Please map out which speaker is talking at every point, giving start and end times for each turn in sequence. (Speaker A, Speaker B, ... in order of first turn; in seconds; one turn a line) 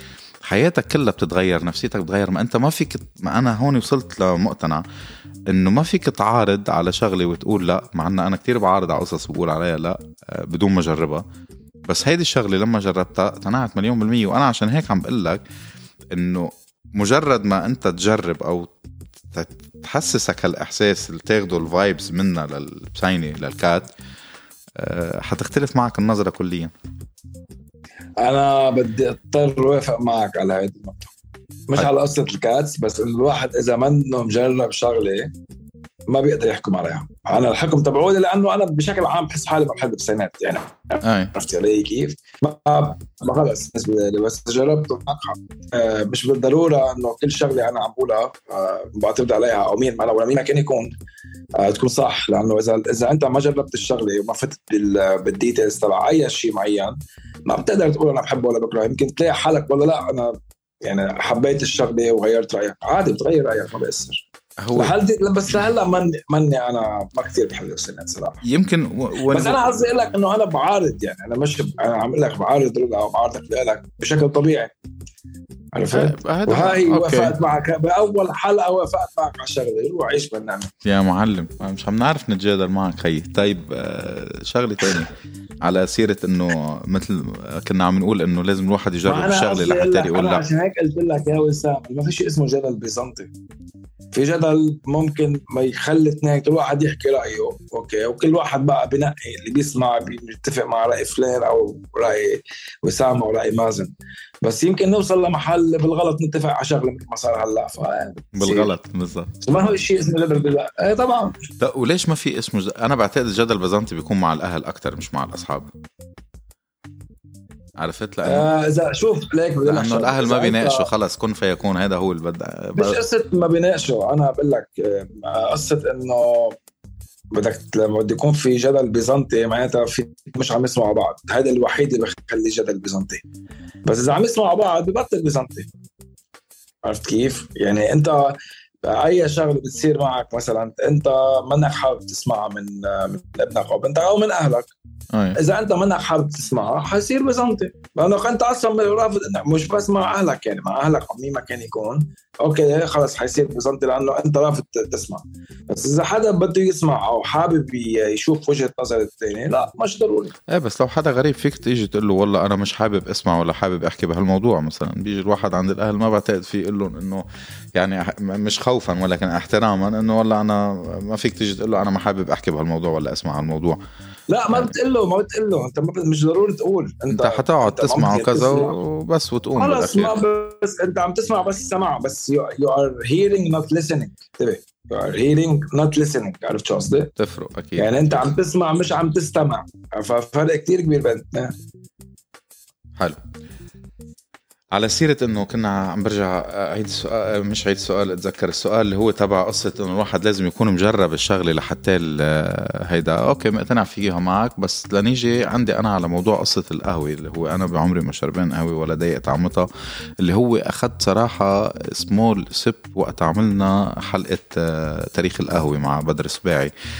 Speaker A: 0.5-4.8
Speaker A: 5.5-11.2
Speaker A: 11.9-15.4
Speaker A: 16.1-18.7
Speaker A: 19.3-23.9
Speaker A: 24.8-26.7
Speaker B: 28.2-31.1
Speaker B: 31.7-35.3
Speaker B: 36.1-50.9
Speaker A: 41.0-41.3
Speaker B: 51.6-56.9
Speaker B: 57.5-68.4
Speaker A: 64.6-64.9
Speaker A: 68.4-69.6
Speaker B: 69.3-74.7
Speaker B: 75.7-80.7
Speaker A: 75.9-77.3
Speaker A: 80.8-90.4
Speaker B: 89.0-93.3
Speaker B: 94.1-103.9
Speaker B: 104.4-108.7
Speaker A: 108.4-109.3
Speaker B: 109.4-111.4
Speaker A: 111.6-115.7
Speaker A: 117.8-118.5
Speaker B: 118.2-120.9
Speaker A: 119.6-123.0
Speaker B: 122.8-126.6
Speaker B: 127.3-133.2
Speaker B: 133.8-135.7
Speaker B: 136.8-144.7
Speaker A: 145.1-145.4
Speaker B: 145.3-160.3
Speaker A: 160.5-173.8
Speaker B: 174.3-178.7
Speaker A: 177.1-180.2
Speaker B: 179.6-187.1
Speaker A: 187.2-188.3
Speaker B: 187.8-191.5
Speaker A: 194.7-209.7
Speaker A: 210.2-216.7